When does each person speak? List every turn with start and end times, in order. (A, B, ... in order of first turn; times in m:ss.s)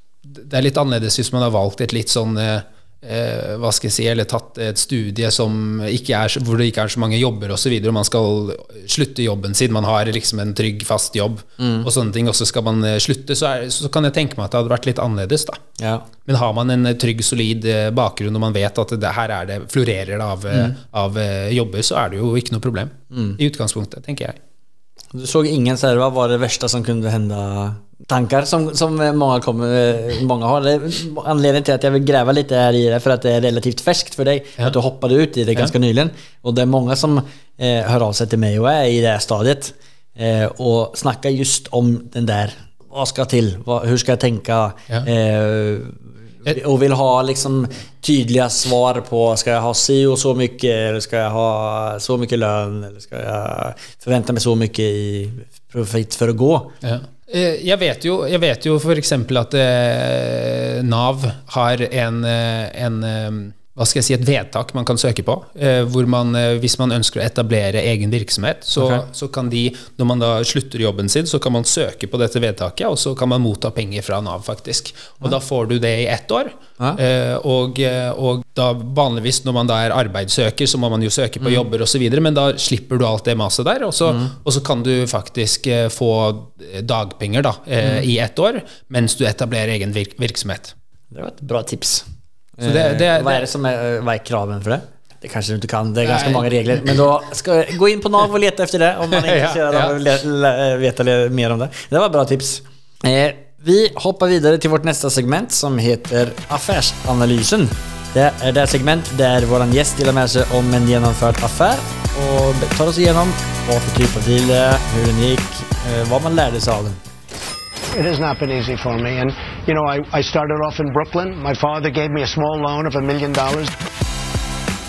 0:00.2-0:15.6 A
0:11.6-0:11.9 B
0:15.8-0:16.1 B
0:16.2-0:24.4 A
0:23.1-0:23.4 B
0:25.1-0:56.7 B
0:56.8-1:30.7 A
1:08.8-1:09.0 B
1:24.1-1:24.3 B
1:31.1-1:32.1 B
1:32.6-1:57.0 B
1:32.6-1:33.4 A
1:36.0-1:36.5 A
1:39.1-1:40.0 A
1:58.0-2:03.8 C